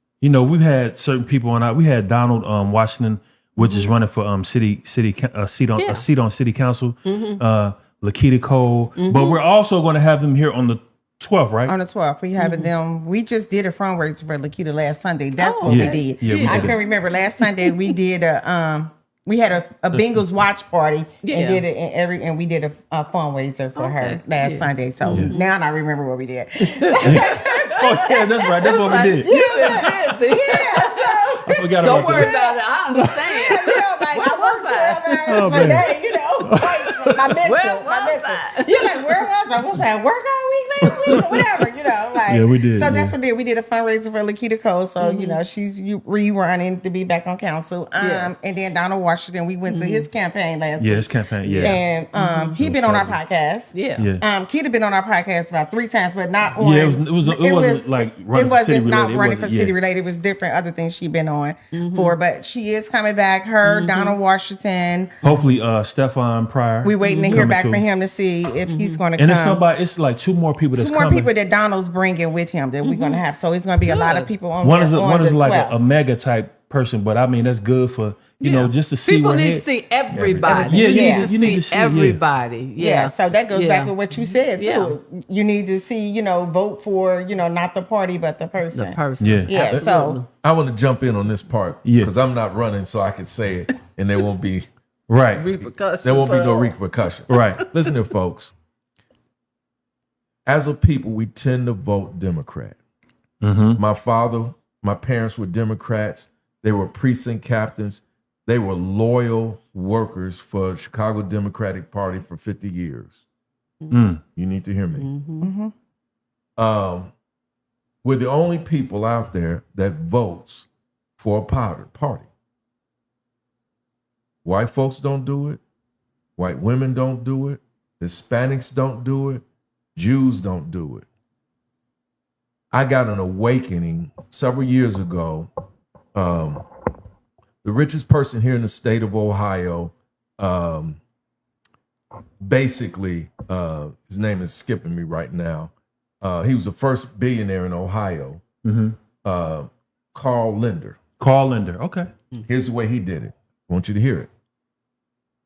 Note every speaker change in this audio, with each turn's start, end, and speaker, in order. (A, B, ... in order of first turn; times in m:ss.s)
0:00.2-0:11.7 A
0:03.6-0:03.9 B
0:05.8-0:06.1 B
0:07.1-0:07.4 B
0:09.0-0:09.4 B
0:11.7-1:05.1 C
0:12.4-0:12.7 B
0:15.4-0:17.8 B
0:15.7-0:16.8 A
0:21.2-0:21.6 B
0:23.8-0:25.5 B
0:25.0-0:25.3 A
0:26.8-0:35.4 B
0:27.0-0:29.9 A
0:31.4-0:32.3 A
0:35.3-0:37.4 A
0:37.4-0:39.0 B
0:40.9-0:41.4 A
0:42.3-0:43.2 A
0:45.0-0:45.4 B
0:48.0-0:48.4 B
0:49.7-0:50.1 B
0:50.8-0:51.8 A
0:51.5-0:52.6 B
0:52.6-0:53.2 A
0:53.7-0:54.1 B
0:54.0-0:54.2 A
0:56.6-0:59.8 A
1:01.7-1:02.2 B
1:03.6-1:04.2 B
1:05.2-1:05.5 B
1:05.2-1:07.8 A
1:06.8-1:09.6 C
1:07.0-1:07.4 B
1:08.7-1:09.0 B
1:09.2-1:11.3 A
1:10.7-1:15.8 C
1:12.8-1:13.2 B
1:13.8-1:14.3 B
1:14.6-1:19.7 A
1:18.4-1:25.0 B
1:20.1-1:20.7 D
1:20.3-1:22.2 A
1:20.7-1:21.3 C
1:22.8-1:30.2 C
1:28.7-1:30.3 B
1:29.2-1:29.5 A
1:29.7-1:34.7 D
1:31.8-1:32.1 A
1:35.1-1:35.4 A
1:35.4-1:37.5 B
1:36.0-1:38.5 D
1:37.3-1:37.7 A
1:40.5-1:42.8 D
1:43.4-1:43.8 A
1:43.8-1:53.2 D
1:53.8-1:54.1 B
1:53.9-1:54.2 A
1:54.4-1:55.1 D
1:55.0-1:55.5 B
1:55.4-1:55.7 C
1:56.6-1:57.1 D
1:58.0-2:00.7 D
2:01.2-2:02.3 D
2:04.4-2:05.6 D
2:06.4-2:09.4 D
2:10.0-2:11.1 D
2:12.7-2:15.5 D
2:16.1-2:16.6 D
2:17.6-2:21.0 D
2:22.4-2:28.4 D
2:28.6-2:29.0 A
2:29.2-2:31.0 D
2:31.2-2:32.1 A
2:32.5-2:34.3 D